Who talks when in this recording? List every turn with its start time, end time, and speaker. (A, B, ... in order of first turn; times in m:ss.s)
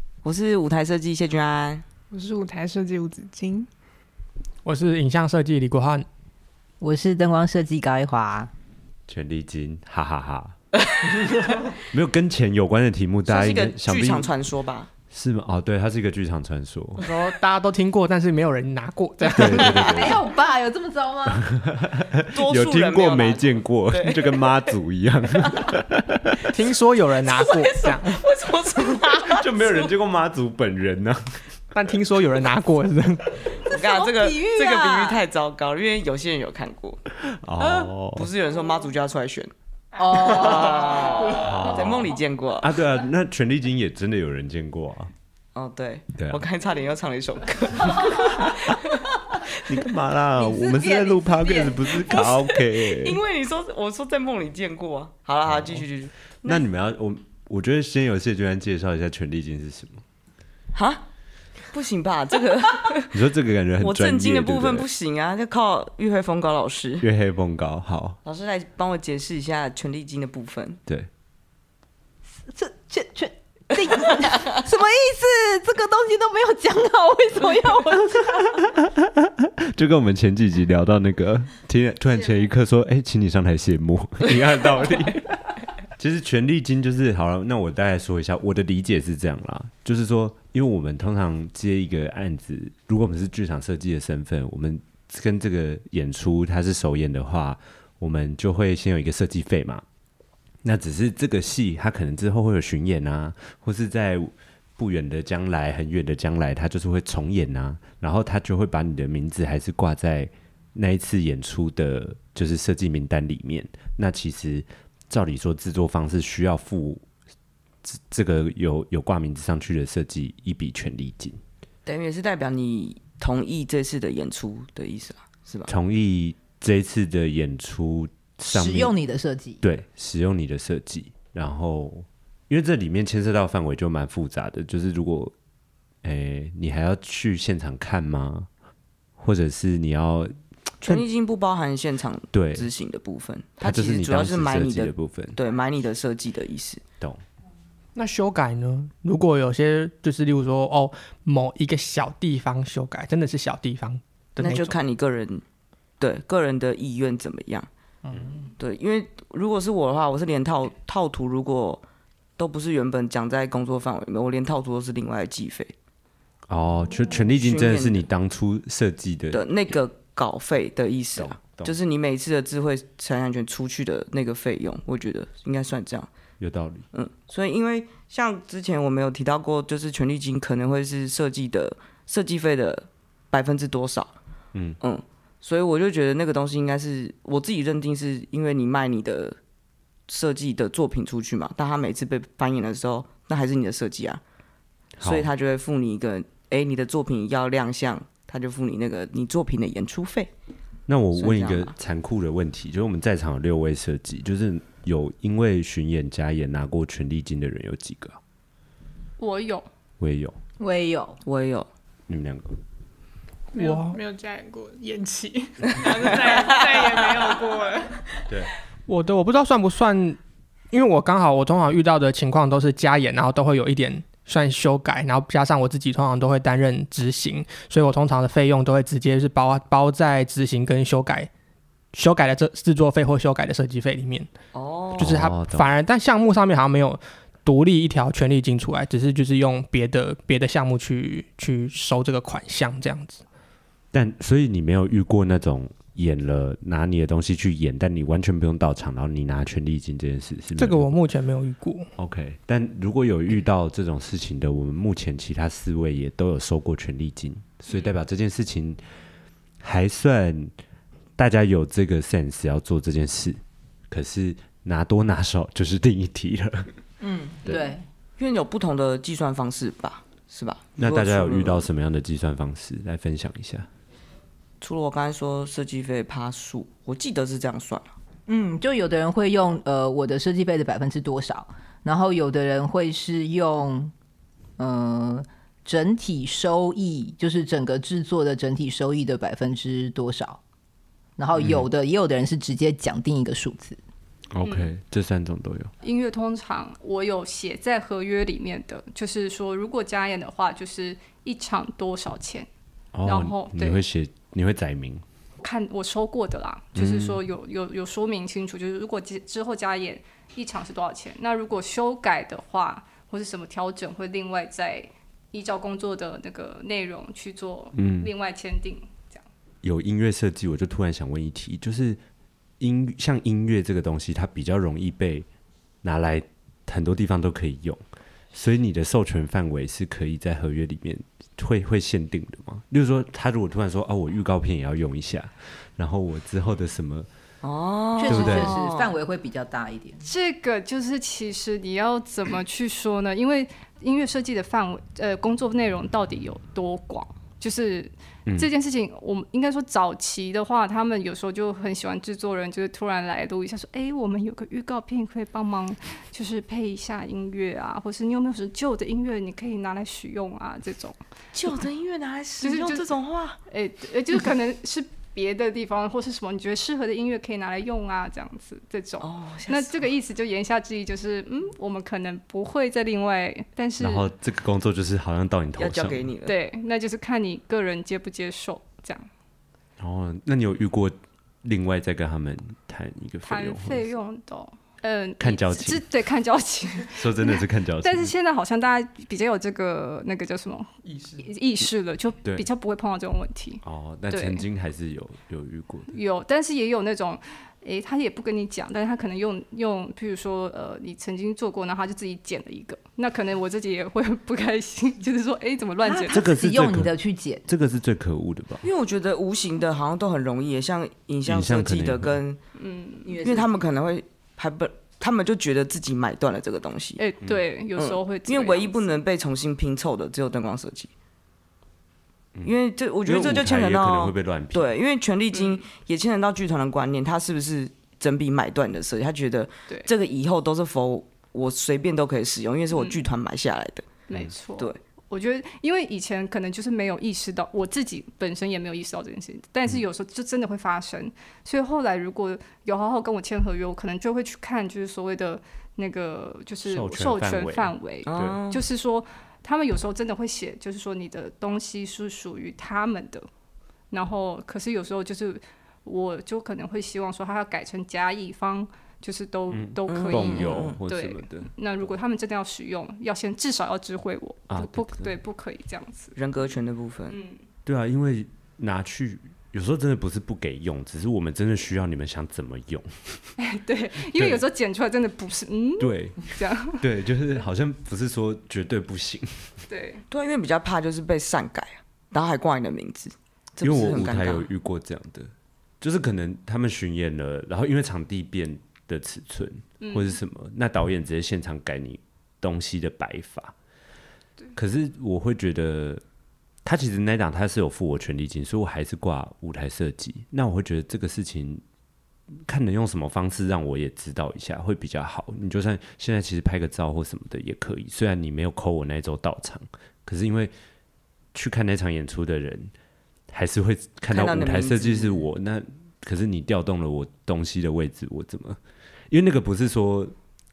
0:00.2-0:01.8 A
0:02.1-0:03.7 B
0:04.6-0:06.0 C
0:06.8-0:08.5 D
0:09.1-0:10.6 E
0:11.2-0:14.3 E
0:13.3-0:14.9 A
0:15.1-0:17.1 E
0:17.0-0:19.8 C
0:19.3-0:20.2 E
0:19.8-0:21.5 D
0:21.3-0:26.5 E
0:22.3-0:24.6 A
0:26.5-0:28.2 C
0:27.2-0:29.9 A
0:29.3-0:31.4 E
0:31.7-0:33.6 C
0:33.6-0:37.0 A
0:33.7-0:35.2 D
0:37.3-0:38.3 E
0:38.2-0:39.5 A
0:40.0-0:41.2 D
0:40.1-0:42.7 A
0:41.3-0:45.1 E
0:45.6-0:49.8 A
0:46.2-0:46.4 E
0:47.9-0:48.8 E
0:49.4-0:53.2 E
0:50.4-0:52.4 D
0:52.2-0:56.6 A
0:55.5-0:55.8 E
0:56.4-1:00.0 E
1:00.7-1:01.0 A
1:01.7-1:03.1 A
1:03.1-1:04.9 E
1:03.8-1:07.1 A
1:07.0-1:08.2 E
1:08.2-1:10.8 A
1:12.4-1:18.6 D
1:18.1-1:39.8 E
1:40.6-1:57.0 E
1:57.8-2:01.4 E
2:01.8-2:05.7 A
2:05.7-2:08.9 E
2:08.4-2:09.6 D
2:09.6-2:15.3 E
2:16.0-2:18.5 E
2:19.2-2:21.0 E
2:20.8-2:26.8 A
2:22.3-2:22.7 E
2:23.6-2:25.4 E
2:28.0-2:34.8 C
2:34.4-2:35.4 A
2:36.0-2:37.7 A
2:38.0-2:38.5 C
2:38.6-2:41.8 A
2:42.4-2:45.7 A
2:46.5-2:49.5 E
2:47.4-2:48.0 A
2:49.3-2:56.1 A
2:51.2-2:51.8 E
2:56.4-2:56.8 E
2:56.9-3:04.1 A
3:04.8-3:09.4 A
3:10.1-3:14.2 A
3:15.0-3:15.3 E
3:15.0-3:20.3 A
3:20.9-3:28.2 E
3:21.2-3:21.8 A
3:29.2-3:29.7 F
3:30.0-3:30.3 E
3:30.6-3:31.2 D
3:31.2-3:31.7 A
3:32.1-3:32.5 E
3:33.5-3:38.3 B
3:33.6-3:34.0 C
3:35.7-3:37.2 A
3:38.9-3:40.2 C
3:40.7-3:51.3 C
3:51.9-3:54.3 C
3:54.5-3:55.2 A
3:55.0-4:03.2 C
3:55.0-3:55.7 E
4:03.9-4:10.9 E
4:10.6-4:11.9 C
4:12.0-4:18.8 E
4:19.6-4:20.5 E
4:21.2-4:26.7 E
4:27.0-4:27.8 D
4:28.2-4:31.7 A
4:30.8-4:33.7 E
4:34.6-4:37.9 A
4:38.3-4:43.9 D
4:44.6-4:50.4 D
4:51.2-4:53.8 D
4:51.4-4:51.7 E
4:54.3-4:55.7 E
4:54.4-4:54.7 F
4:55.8-5:02.5 F
5:02.9-5:05.0 E
5:03.0-5:03.8 F
5:05.4-5:19.2 F
5:06.8-5:07.2 E
5:17.8-5:18.1 E
5:19.6-5:22.0 E
5:22.6-5:25.2 E
5:25.8-5:27.8 E
5:28.3-5:37.1 E
5:37.4-5:38.9 A
5:38.0-5:40.1 D
5:38.0-5:38.6 E
5:40.0-6:01.0 F
6:01.3-6:03.4 A
6:02.4-6:02.9 F
6:03.5-6:14.1 F
6:09.0-6:09.8 A
6:13.8-6:16.1 E
6:15.6-6:16.3 A
6:16.2-6:19.1 F
6:19.8-6:23.9 E
6:23.2-6:34.4 F
6:25.2-6:25.8 E
6:26.9-6:28.1 E
6:30.8-6:31.2 C
6:33.6-6:35.9 E
6:35.9-6:46.2 F
6:45.8-6:47.5 D
6:46.1-6:46.9 E
6:47.5-6:48.6 E
6:48.6-6:52.4 A
6:51.2-6:52.2 E
6:52.6-6:53.1 F
6:53.0-6:53.6 D
6:53.2-6:57.0 A
6:57.0-6:58.9 F
6:57.8-7:00.9 A
7:02.4-7:04.7 E
7:02.4-7:13.9 A
7:05.3-7:05.6 F
7:12.7-7:13.0 F
7:14.1-7:33.3 F
7:26.6-7:28.4 E
7:28.1-7:28.6 A
7:33.9-7:46.2 F
7:39.5-7:41.5 E
7:39.9-7:40.8 A
7:44.5-7:45.1 E
7:46.2-7:47.2 A
7:47.1-7:47.4 F
7:47.6-7:53.3 E
7:53.4-7:56.8 F
7:54.1-7:54.4 E
7:55.8-7:59.6 E
7:59.7-8:00.0 F
8:00.1-8:04.5 A
8:03.6-8:13.5 E
8:09.8-8:10.2 F
8:14.6-8:16.0 E
8:16.6-8:21.6 E
8:22.4-8:30.5 E
8:31.3-8:32.7 E
8:33.3-8:38.6 E
8:34.1-8:35.2 A
8:39.1-8:40.1 E